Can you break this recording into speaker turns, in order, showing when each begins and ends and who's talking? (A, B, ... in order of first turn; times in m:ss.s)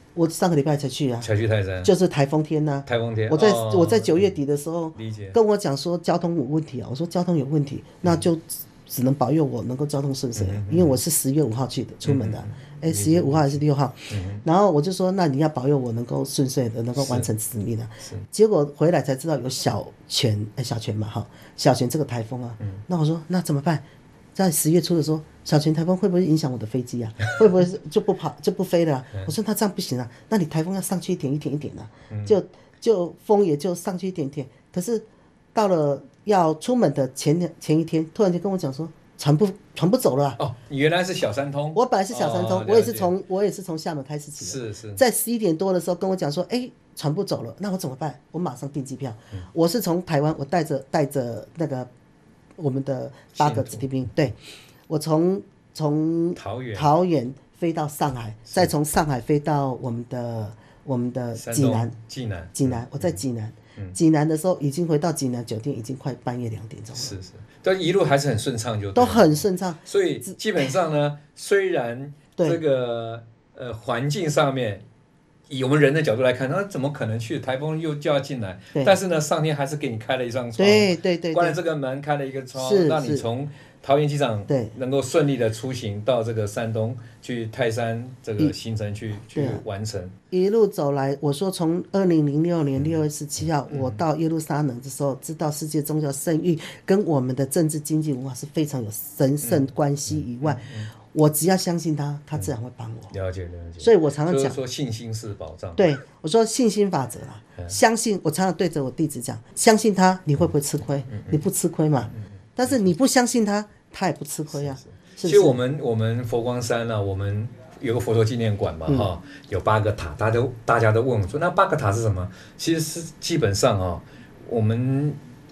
0:00.2-0:01.3 A
0:01.2-0:01.9 B
0:01.8-0:40.4 A
0:02.9-0:04.3 B
0:05.0-0:05.4 B
0:10.4-0:11.0 B
0:12.0-0:14.4 B
0:17.0-0:17.3 B
0:32.1-0:32.4 B
0:40.4-0:43.1 B
0:41.8-0:51.9 A
0:44.4-0:45.0 B
0:52.6-0:54.4 A
0:53.4-0:53.9 B
0:54.9-1:01.9 A
0:56.4-0:56.9 B
1:01.3-1:03.2 B
1:02.6-1:07.2 A
1:06.9-1:14.8 B
1:09.0-1:10.7 A
1:15.5-1:30.1 B
1:20.6-1:21.6 A
1:22.5-1:23.3 A
1:24.5-1:24.7 A
1:29.3-1:29.6 A
1:30.3-1:43.1 A
1:32.8-1:33.0 B
1:33.7-1:34.0 B
1:39.4-1:40.9 B
1:43.1-1:45.9 B
1:43.8-1:44.6 A
1:45.8-1:55.6 A
1:51.1-1:51.4 B
1:52.1-1:52.9 B
1:54.5-2:05.2 B